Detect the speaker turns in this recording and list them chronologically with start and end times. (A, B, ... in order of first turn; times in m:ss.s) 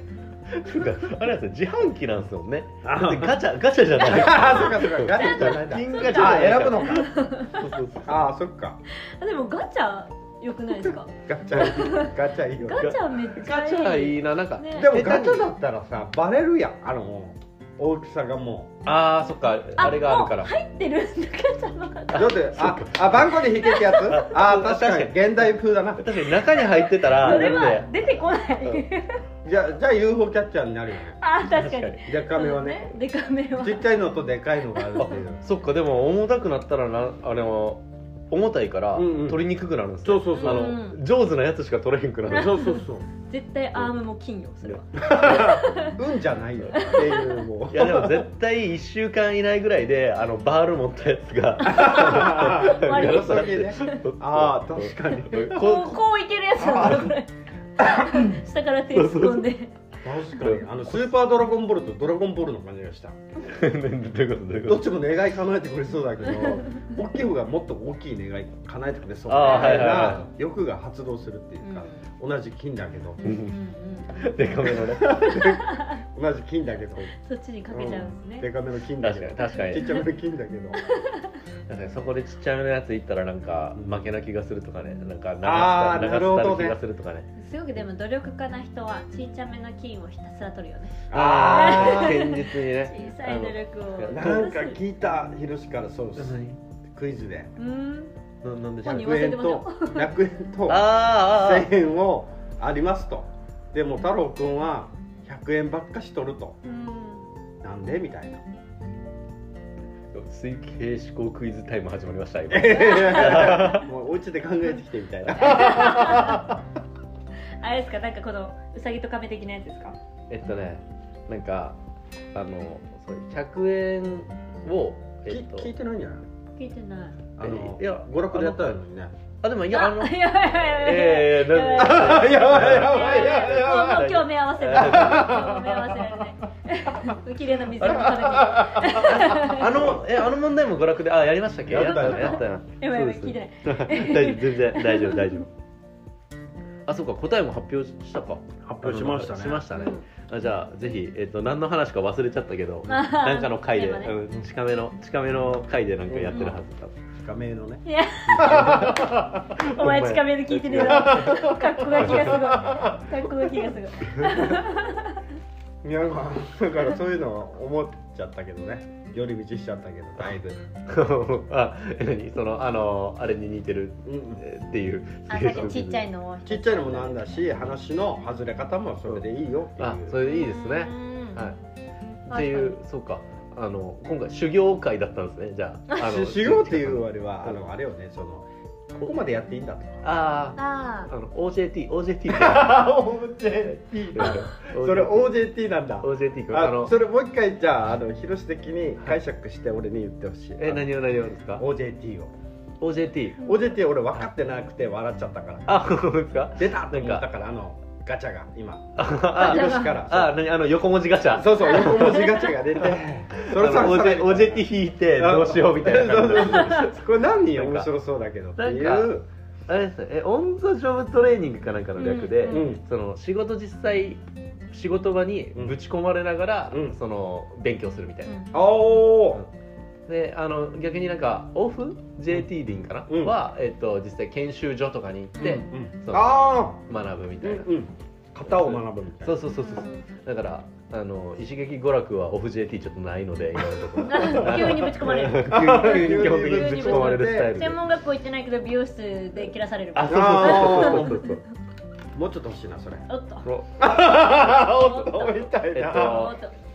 0:00.5-0:08.3 A
0:02.8-0:03.4 B
0:04.0-0:07.1 B
0:04.4-0:07.7 C
0:08.0-0:08.8 B
0:09.0-0:14.9 C
0:11.2-0:12.9 B
0:12.7-0:15.5 A
0:14.8-0:18.7 B
0:18.8-0:20.5 A
0:19.8-0:22.3 C
0:22.1-0:27.9 A
0:22.1-0:26.0 B
0:23.6-0:24.1 C
0:26.5-0:29.2 C
0:27.2-0:27.7 B
0:29.4-0:31.2 B
0:31.2-0:33.9 C
0:31.5-0:32.0 A
0:32.0-0:33.0 B
0:33.6-0:35.4 B
0:34.9-0:42.6 A
0:38.9-0:39.4 B
0:40.0-0:40.7 B
0:40.3-0:41.0 C
0:42.3-0:43.0 B
0:42.3-0:46.0 C
0:44.7-0:45.6 A
0:45.1-0:48.3 B
0:46.7-0:47.0 A
0:46.7-0:47.4 C
0:47.7-0:55.9 A
0:51.6-0:54.0 C
0:51.7-0:55.8 B
0:55.3-0:59.7 C
0:56.6-0:57.2 B
0:57.8-0:58.4 B
0:58.9-0:59.5 A
1:00.0-1:03.2 B
1:00.3-1:01.1 A
1:03.5-1:04.9 A
1:04.6-1:13.2 B
1:09.3-1:10.2 A
1:09.4-1:09.9 C
1:11.6-1:12.0 C
1:13.2-1:14.6 C
1:13.2-1:13.5 A
1:14.2-1:15.6 A
1:14.6-1:17.1 B
1:15.4-1:16.0 C
1:17.2-1:18.5 C
1:17.7-1:20.8 B
1:19.0-1:19.8 A
1:19.5-1:20.0 C
1:20.8-1:21.4 C
1:21.7-1:27.2 A
1:25.4-1:26.8 B
1:27.4-1:34.8 C
1:31.1-1:32.2 B
1:31.1-1:34.5 A
1:34.1-1:36.4 B
1:36.2-1:36.6 A
1:36.9-1:37.5 B
1:37.6-1:38.1 C
1:38.4-1:39.0 A
1:38.8-1:40.1 C
1:38.8-1:46.6 B
1:40.7-1:41.7 A
1:46.6-1:47.3 C
1:47.6-1:48.4 B
1:50.1-1:53.8 A
1:52.5-1:56.6 B
1:55.4-1:56.5 C
1:57.6-2:00.0 C
2:00.3-2:01.8 A
2:02.3-2:05.7 A
2:05.3-2:06.2 B
2:06.6-2:07.2 C
2:07.4-2:09.1 B
2:07.4-2:08.8 A
2:09.4-2:15.5 A
2:09.7-2:19.9 C
2:11.7-2:13.9 B
2:14.7-2:16.2 B
2:17.8-2:25.5 A
2:21.7-2:22.5 B
2:21.8-2:25.5 C
2:26.9-2:37.0 A
2:28.6-2:29.7 B
2:29.7-2:30.0 C
2:32.9-2:34.2 C
2:36.1-2:36.6 B
2:36.3-2:36.6 C
2:37.2-2:39.6 B
2:37.8-2:38.9 C
2:38.3-2:42.6 A
2:39.7-2:45.2 C
2:40.7-2:42.9 B
2:45.8-2:50.6 B
2:50.9-2:56.1 A
2:54.0-2:54.4 B
2:55.3-2:57.2 C
2:56.4-3:00.2 B
2:59.8-3:01.6 A
3:00.2-3:01.4 C
3:02.3-3:07.6 A
3:02.3-3:02.8 C
3:06.0-3:10.2 B
3:10.0-3:12.9 A
3:10.6-3:11.1 C
3:12.3-3:20.9 B
3:14.1-3:15.4 A
3:16.0-3:16.9 A
3:20.6-3:21.6 A
3:21.6-3:22.3 B
3:22.8-3:23.4 A
3:23.4-3:25.8 B
3:25.7-3:27.3 A
3:26.6-3:30.4 B
3:29.0-3:32.9 A
3:29.4-3:30.0 C
3:31.3-3:39.2 B
3:31.8-3:32.2 C
3:33.4-3:37.0 A
3:37.5-3:37.9 A
3:38.6-3:39.2 A
3:39.7-3:44.2 A
3:42.0-3:42.8 C
3:42.5-3:42.8 B
3:44.7-3:48.4 A
3:46.7-3:47.0 B
3:48.2-3:48.5 C
3:48.5-3:49.4 B
3:50.1-3:57.7 A
3:53.1-3:53.4 B
3:55.4-3:55.7 C
3:55.4-3:56.8 B
3:57.4-3:59.4 B
3:58.4-4:07.8 A
3:59.6-4:00.0 C
4:04.0-4:11.4 C
4:04.2-4:07.5 B
4:09.9-4:11.4 A
4:10.0-4:11.1 B
4:12.1-4:13.0 B
4:13.1-4:13.5 C
4:13.4-4:14.4 A
4:13.8-4:16.3 B
4:14.3-4:16.5 C
4:15.7-4:16.4 A